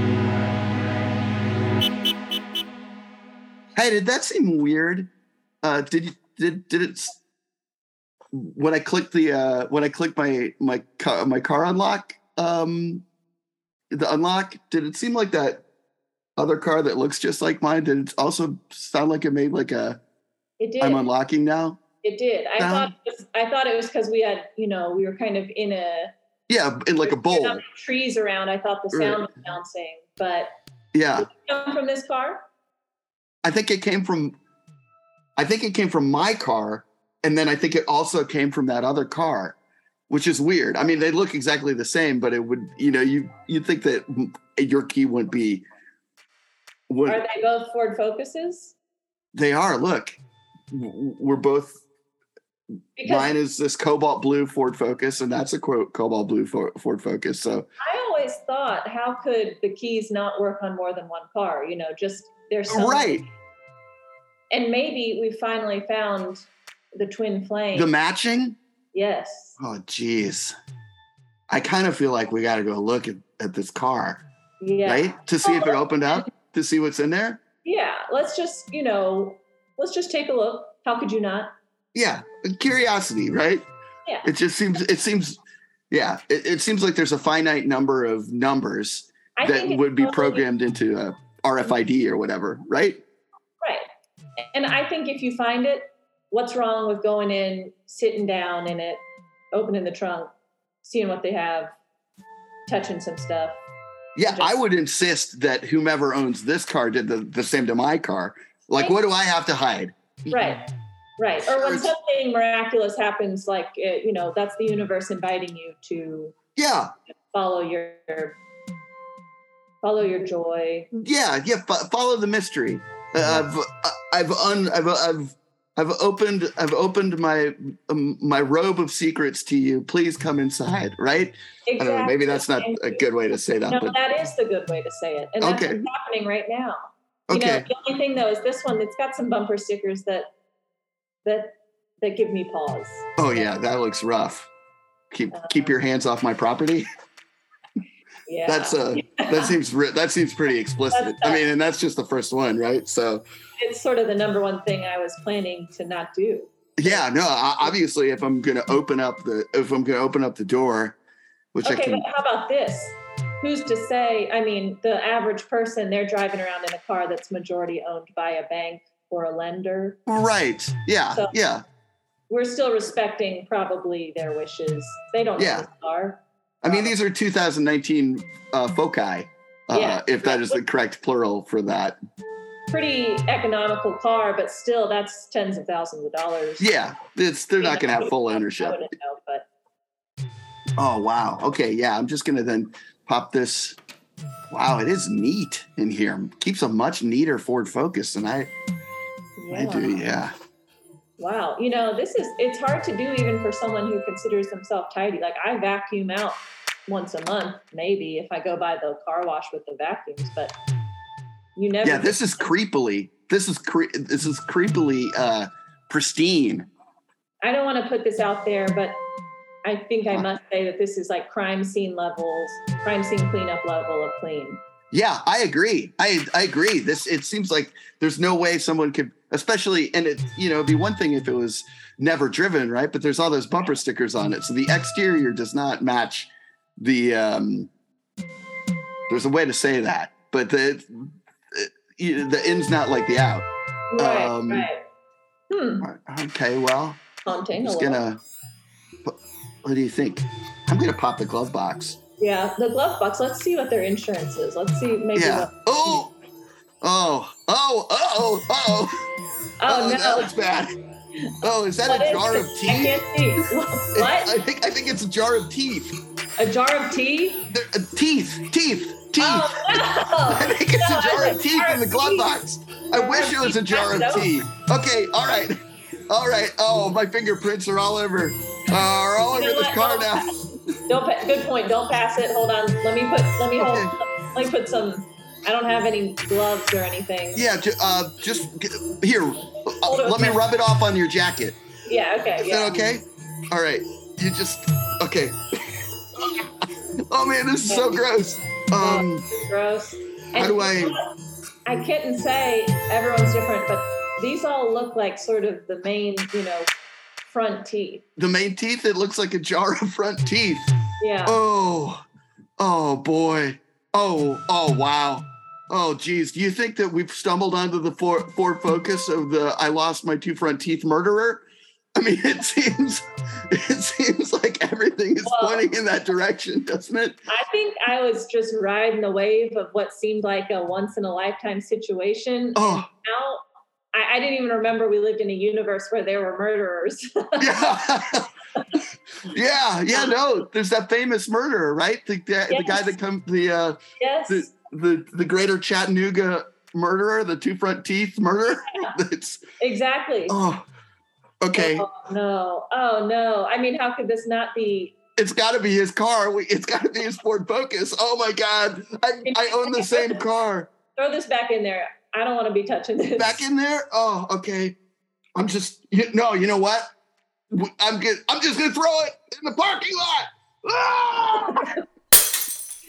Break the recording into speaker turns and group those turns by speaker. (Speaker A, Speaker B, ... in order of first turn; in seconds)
Speaker A: 3.7-5.1, 5.6-7.2, 8.3-13.0, 13.9-15.6, 16.4-20.0, 20.8-21.8, 22.6-22.9, 26.5-27.6, 28.9-29.2, 30.9-31.3, 33.4-34.3, 35.4-39.6, 40.1-45.6, 46.9-47.2, 49.3-50.2, 50.7-51.8, 53.0-57.7, 62.7-63.2, 67.7-68.6, 69.6-70.5, 71.5-74.2, 74.8-77.4, 81.9-83.7, 84.2-85.4, 85.9-93.0, 104.2-110.6, 111.4-111.9, 116.5-116.9, 120.9-134.0, 135.4-135.8, 137.3-137.7, 143.2-144.5, 145.1-146.8, 148.5-153.2, 156.8-161.0, 161.5-162.0, 170.1-171.6, 175.4-175.7, 176.6-182.0, 186.6-188.8, 190.8-193.8, 194.5-198.5, 199.5-200.3, 211.8-216.7, 224.9-237.7, 239.1-244.7, 245.8-247.0, 247.6-248.2, 249.0-252.0, 255.1-256.1, 256.8-259.0, 259.6-260.7, 261.4-263.0, 263.9-265.9, 267.5-275.6, 276.1-280.3, 283.6-283.9, 287.3-291.6, 292.4-296.5, 297.1-299.3, 300.4-301.0, 308.2-310.7, 311.2-312.0, 312.6-327.2, 332.6-332.9, 337.4-338.3, 339.2-349.4, 350.3-350.6, 351.4-351.9, 355.2-360.7, 363.1-364.8, 365.4-366.9, 367.5-371.8
Speaker B: 20.6-21.0, 22.0-26.1, 27.0-30.5, 31.2-32.4, 47.0-48.7, 53.0-53.3, 57.8-63.2, 64.5-67.9, 68.9-69.6, 74.6-76.3, 77.6-81.5, 89.4-90.5, 94.4-100.3, 100.8-101.7, 102.7-103.5, 104.2-104.6, 110.3-110.7, 111.2-116.3, 117.3-118.4, 119.8-120.9, 131.7-133.0, 133.7-140.3, 141.2-143.1, 145.3-145.7, 148.3-149.6, 150.9-151.4, 153.6-157.0, 161.6-170.0, 172.3-176.9, 179.7-180.6, 182.7-186.7, 187.6-189.4, 199.4-200.0, 201.2-210.5, 211.6-212.5, 217.4-219.0, 219.6-224.6, 243.9-244.8, 245.5-245.8, 247.2-248.0, 252.2-256.0, 259.6-260.3, 261.8-264.4, 266.4-267.5, 269.2-272.3, 272.9-274.3, 279.3-280.3, 280.9-287.4, 289.8-290.4, 291.9-292.8, 297.7-298.0, 298.8-301.1, 301.6-306.7, 307.3-308.0, 311.0-311.4, 325.2-325.6, 327.3-338.0, 339.9-340.1, 342.5-342.9, 344.0-344.5, 348.7-348.9, 349.6-350.4, 351.5-354.9, 359.2-360.2, 360.9-363.4, 371.5-371.8